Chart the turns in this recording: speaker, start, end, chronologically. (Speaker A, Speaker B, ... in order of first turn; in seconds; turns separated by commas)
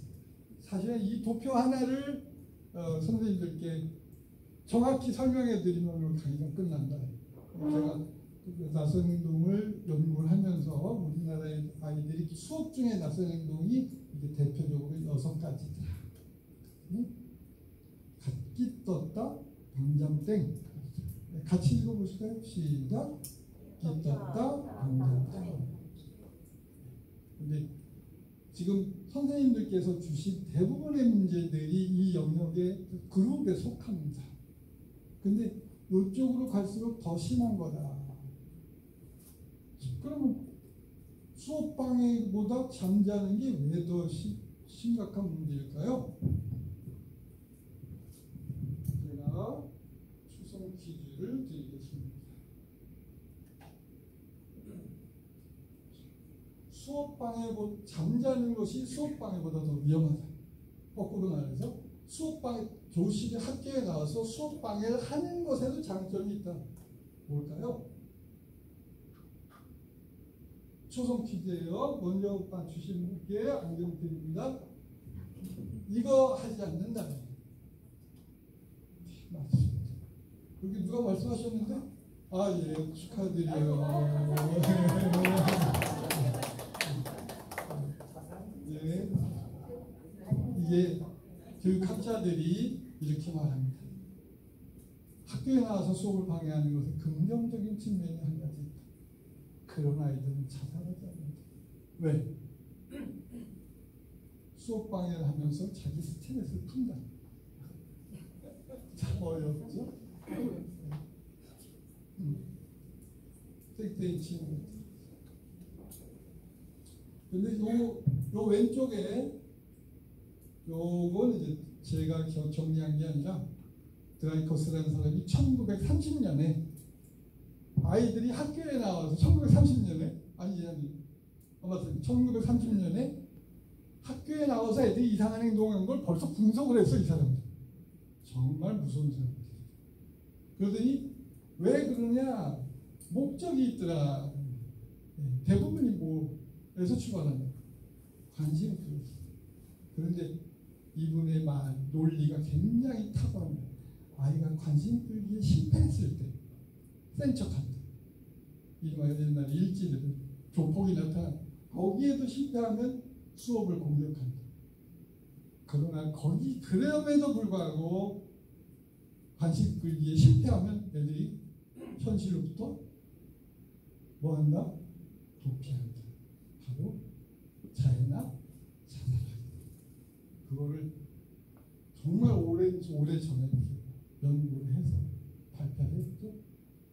Speaker A: 0.6-3.9, Speaker A: 4.7-16.1, Speaker A: 16.8-17.1, Speaker A: 18.2-23.1, Speaker A: 23.8-25.9, Speaker A: 26.9-27.7, Speaker A: 28.5-34.3, Speaker A: 35.2-38.3, Speaker A: 39.8-40.5, Speaker A: 41.3-46.1, Speaker A: 48.9-49.7, Speaker A: 50.3-52.4, Speaker A: 56.7-60.3, Speaker A: 60.9-66.6, Speaker A: 67.3-67.8, Speaker A: 70.9-74.6, Speaker A: 75.8-77.3, Speaker A: 79.0-80.0, Speaker A: 80.6-87.1, Speaker A: 87.7-89.6, Speaker A: 90.3-91.1, Speaker A: 91.6-93.9, Speaker A: 95.2-98.8, Speaker A: 99.7-101.4, Speaker A: 102.0-102.3, Speaker A: 104.5-107.0, Speaker A: 108.5-111.0, Speaker A: 112.2-112.5, Speaker A: 113.7-114.8, Speaker A: 117.3-119.3, Speaker A: 120.7-123.5, Speaker A: 124.2-126.6, Speaker A: 127.8-131.0, Speaker A: 131.6-133.2, Speaker A: 134.0-137.5, Speaker A: 138.2-139.7, Speaker A: 140.6-144.6, Speaker A: 145.2-147.6, Speaker A: 148.3-149.2, Speaker A: 149.9-150.3, Speaker A: 150.9-156.4, Speaker A: 157.1-157.8, Speaker A: 158.8-164.4, Speaker A: 165.7-168.2, Speaker A: 169.4-171.4, Speaker A: 171.9-172.8, Speaker A: 174.2-174.7, Speaker A: 175.4-177.0, Speaker A: 177.7-178.3, Speaker A: 178.9-179.6, Speaker A: 180.4-180.9, Speaker A: 181.9-186.4